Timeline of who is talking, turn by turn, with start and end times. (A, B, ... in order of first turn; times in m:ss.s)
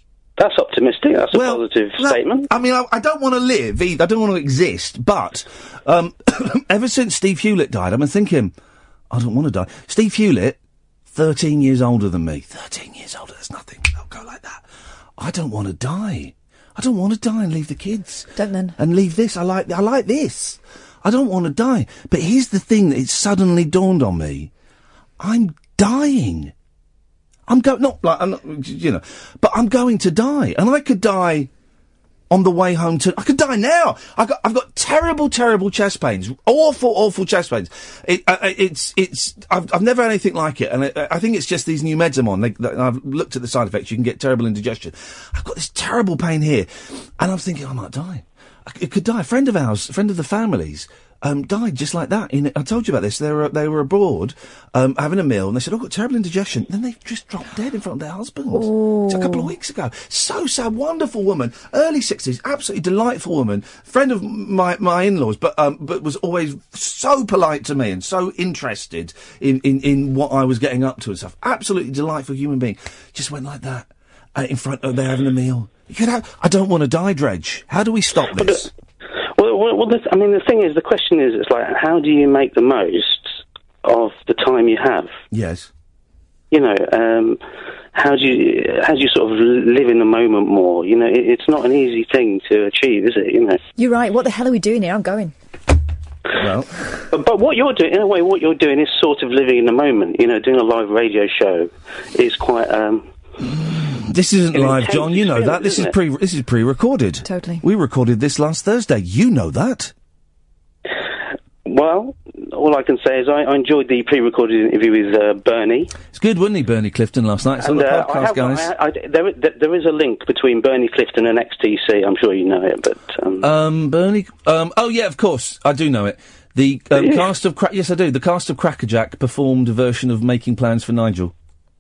0:00.4-0:02.5 A
0:01.3-0:08.5 B
0:09.1-0:10.6 B
0:11.1-0:14.6 B
0:15.2-0:24.5 B
0:18.4-0:18.8 C
0:25.2-0:26.5 B
0:27.5-0:31.5 B
0:32.3-1:18.7 B
0:58.5-0:59.5 C
1:18.4-1:18.7 A
1:19.4-1:25.1 A
1:25.3-1:25.7 B
1:26.5-1:27.4 A
1:28.0-1:33.6 A
1:33.8-1:35.3 C
1:36.4-1:37.0 B
1:37.1-1:43.1 A
1:43.5-1:49.9 B
1:44.5-1:45.9 A
1:47.2-1:47.6 C
1:51.7-1:56.0 A
1:56.1-1:58.7 B
1:57.6-2:03.5 A
2:03.4-2:11.3 B